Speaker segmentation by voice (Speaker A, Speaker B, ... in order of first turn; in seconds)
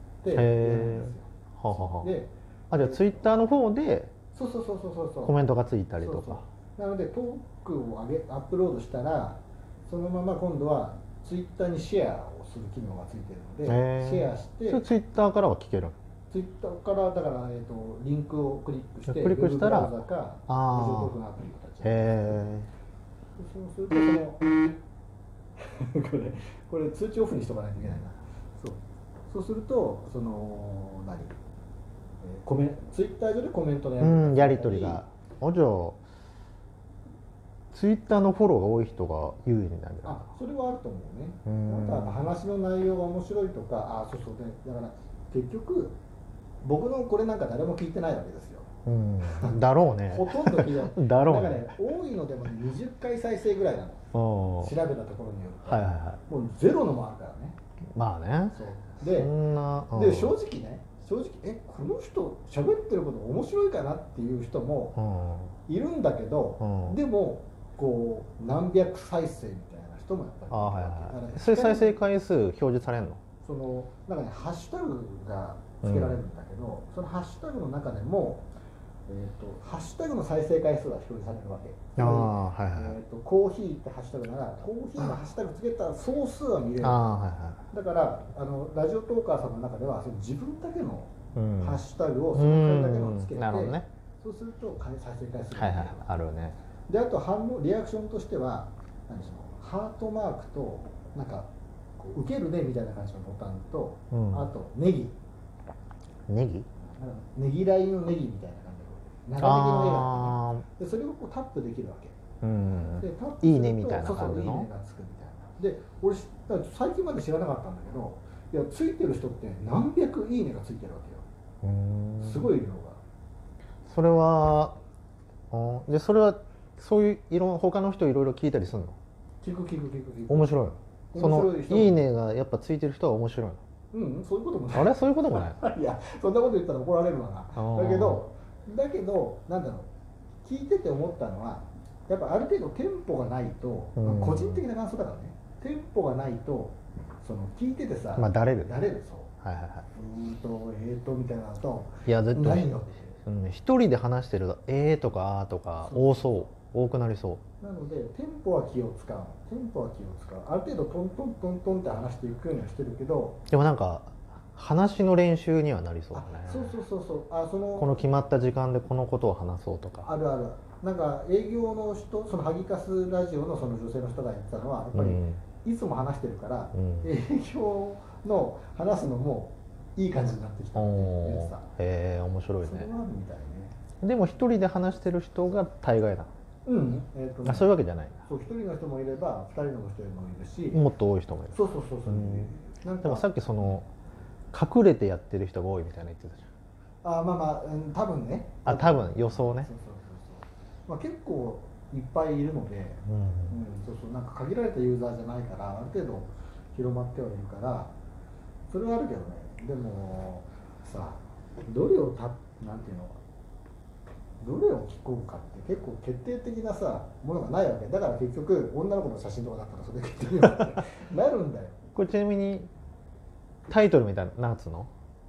Speaker A: 0.2-3.3, 4.3-5.4, 6.0-14.9, 16.3-22.4, 23.4-24.7, 25.6-31.3, 32.2-35.0, 40.0-46.0, 46.6-48.7, 49.2-54.1, 54.6-57.6, 58.5-59.3, 59.9-65.0, 65.7-72.0, 73.4-78.5, 79.1-87.1, 87.7-96.0, 96.9-105.2, 106.8-112.2, 113.0-121.2, 122.2-123.0, 129.4-130.6, 131.1-132.0, 133.9-139.9, 140.4-149.3, 149.9-153.2, 155.8-156.5, 157.6-163.4, 166.1-167.9, 170.1-181.7, 182.6-183.8, 186.7-187.7, 188.3-190.8, 191.5-193.7, 197.0-207.9, 208.7-213.2, 214.4-221.8
Speaker B: 0.3-2.1, 2.7-4.1, 5.2-6.4, 13.7-16.0, 19.1-19.9, 20.5-21.1, 21.8-22.7, 34.0-36.0, 37.7-40.3, 41.5-42.3, 48.9-51.7, 54.1-54.7, 55.7-56.2, 58.0-60.3, 65.0-65.5, 66.6-67.0, 70.5-73.2, 75.8-76.2, 82.0-83.0, 86.8-87.6, 91.4-91.8, 92.3-93.9, 95.5-96.6, 104.1-104.5, 106.3-106.7, 109.4-110.7, 112.4-114.7, 121.6-122.5, 123.9-124.8, 125.5-129.0, 130.3-133.6, 134.7-135.6, 137.6-138.2, 144.0-144.6, 148.2-148.8, 149.4-149.9, 152.1-152.7, 153.2-157.4, 163.5-166.8, 167.8-170.1, 174.9-175.4, 176.8-177.1, 180.8-182.9, 184.0-186.3, 187.4-188.2, 190.7-192.5, 193.0-193.9, 194.5-196.5, 198.7-199.7, 203.1-203.6, 221.9-222.7, 223.7-224.9